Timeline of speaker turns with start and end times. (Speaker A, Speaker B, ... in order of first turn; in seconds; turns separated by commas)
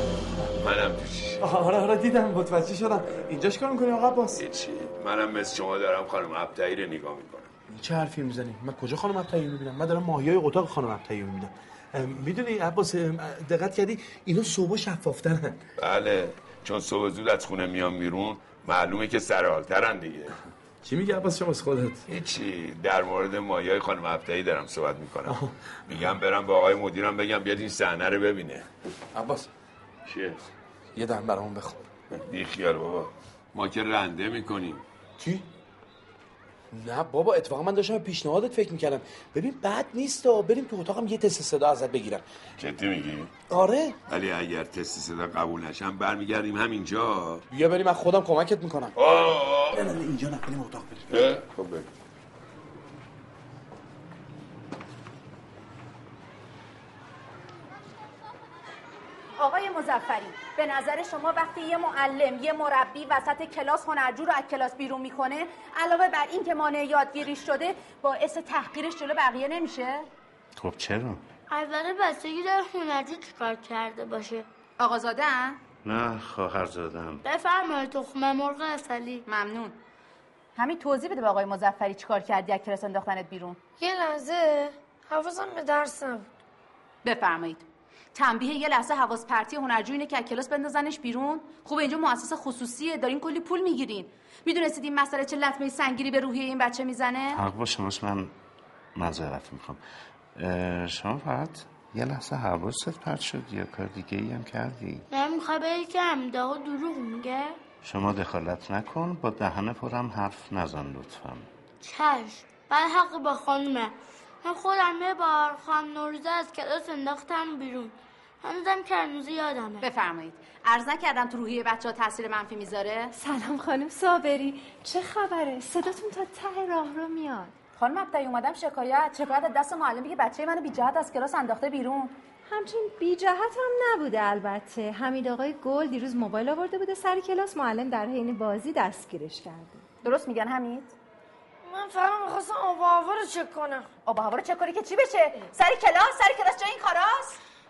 Speaker A: 0.6-1.4, Speaker B: 1.4-4.4, Speaker A: 4.3-7.5, Speaker B: 7.7-15.6, Speaker A: 15.8-20.3, Speaker B: 20.8-22.0, Speaker A: 22.1-28.7, Speaker B: 29.1-29.5, Speaker A: 30.1-30.5, Speaker B: 30.9-31.8, Speaker A: 32.1-34.8, Speaker B: 35.2-35.4, Speaker B: 36.7-42.2, Speaker A: 42.6-43.3, Speaker B: 43.5-44.0, Speaker A: 44.1-47.4, Speaker B: 47.5-48.9, Speaker A: 49.0-49.9, Speaker B: 49.7-51.1, Speaker A: 51.1-51.9, Speaker C: 59.4-70.1, Speaker D: 70.5-71.2, Speaker E: 71.5-74.5, Speaker C: 74.8-75.6, Speaker D: 75.8-77.2, Speaker E: 77.2-79.2, Speaker C: 79.2-79.8, Speaker C: 80.5-83.6, Speaker F: 83.8-86.3, Speaker C: 87.0-97.4, Speaker D: 97.3-98.3, Speaker D: 98.9-99.8, Speaker D: 100.3-105.1, Speaker E: 105.1-107.6, Speaker D: 107.8-111.5, Speaker E: 111.8-119.9, Speaker C: 119.8-123.1, Speaker G: 123.2-127.5, Speaker C: 127.8-132.2, Speaker G: 132.5-139.9, Speaker C: 140.0-140.9, Speaker F: 141.6-143.9, Speaker C: 144.0-147.4